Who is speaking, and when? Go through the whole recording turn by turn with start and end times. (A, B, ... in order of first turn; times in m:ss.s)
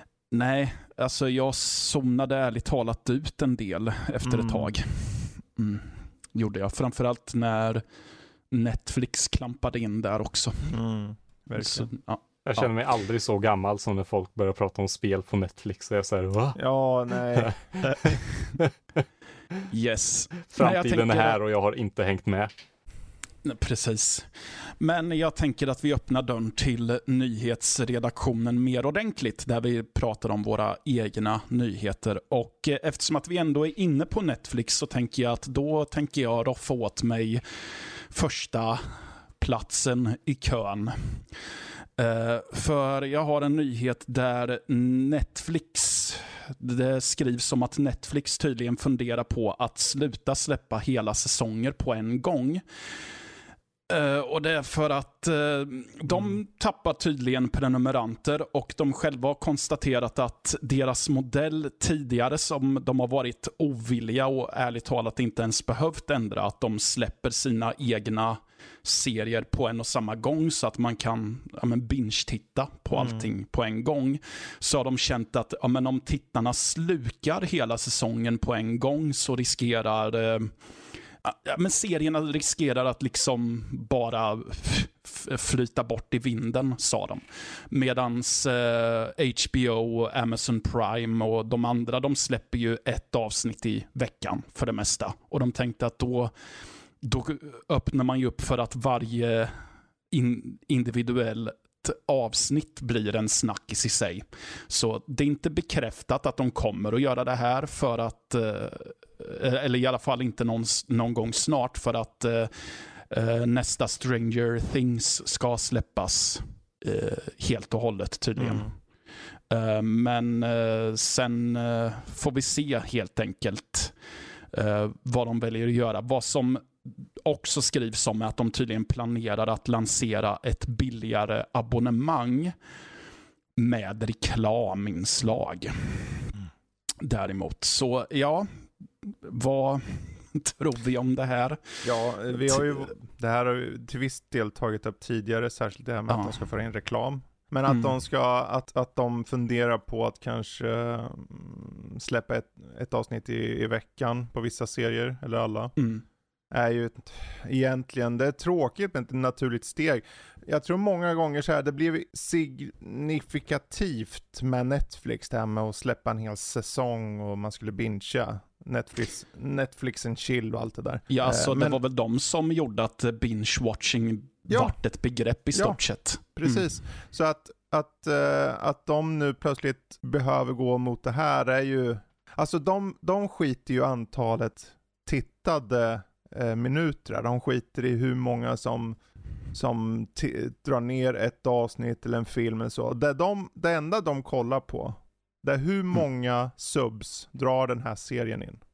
0:00.3-0:07.8 A
0:04.2-0:04.7 B
0:08.5-0:10.8 A
0:10.7-0:11.9 B
0:11.6-0:12.7 A
0:12.4-0:16.6 C
0:16.6-0:18.0 B
0:17.3-0:18.7 C
0:19.7-0:21.4 A
0:20.5-0:22.5 C
0:23.4-0:41.3 A
0:42.0-0:52.6 A
0:53.9-1:20.5 A
1:12.9-1:13.3 B
1:21.2-1:36.3 A
1:37.0-1:58.7 A
1:58.4-1:58.7 B
1:59.5-2:03.9 A
2:04.5-2:12.5 A
2:13.6-2:16.3 A
2:17.0-2:22.6 A
2:21.8-2:35.7 B
2:26.1-2:26.3 A
2:35.8-2:36.0 A
2:36.5-2:51.8 B
2:51.1-2:56.6 A
2:54.5-2:54.8 B
2:55.5-2:55.8 B
2:56.4-3:09.0 B
3:09.5-3:18.6 B